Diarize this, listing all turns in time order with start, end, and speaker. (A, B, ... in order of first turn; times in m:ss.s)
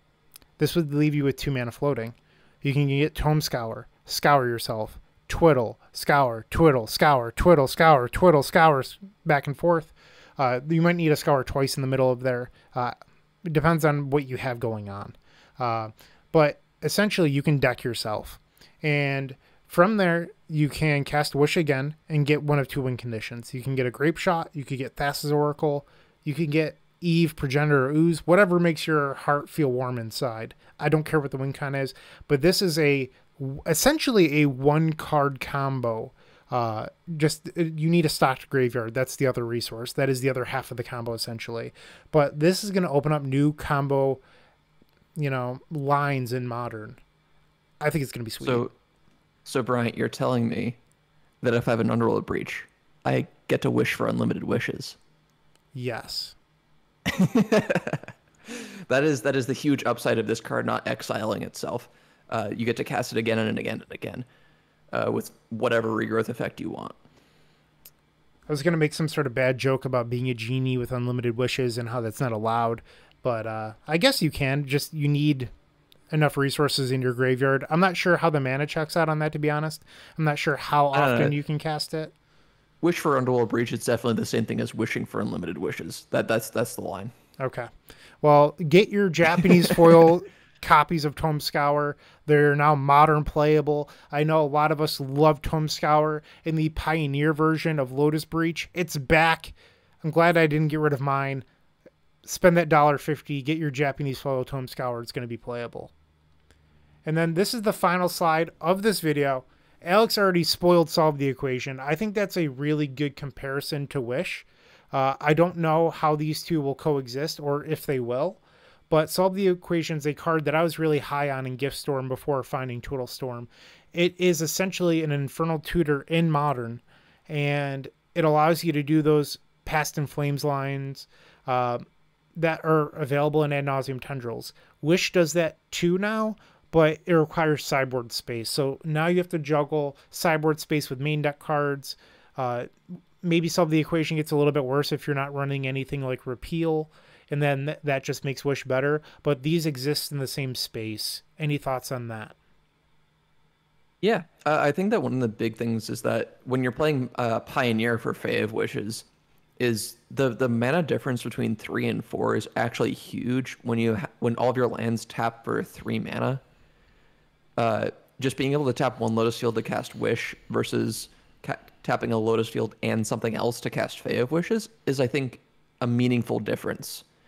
0:00.6-0:44.2 A
0:45.2-0:47.0 A
0:47.8-0:48.7 A
0:48.4-0:48.7 B
0:49.4-0:50.8 B
0:51.4-0:55.0 B
0:55.7-0:56.4 A
0:57.1-1:04.3 B
1:04.9-1:07.0 B
1:08.5-1:15.5 A
1:16.1-1:22.1 A
1:20.9-1:21.3 B
1:22.8-1:27.1 B
1:27.4-1:27.7 A
1:28.2-1:41.4 A
1:29.4-1:30.0 B
1:42.2-1:45.9 A
1:47.0-2:11.8 A
2:12.4-2:22.7 A
2:23.2-2:32.4 A
2:34.0-2:39.1 B
2:39.6-2:46.4 B
2:47.6-2:57.0 B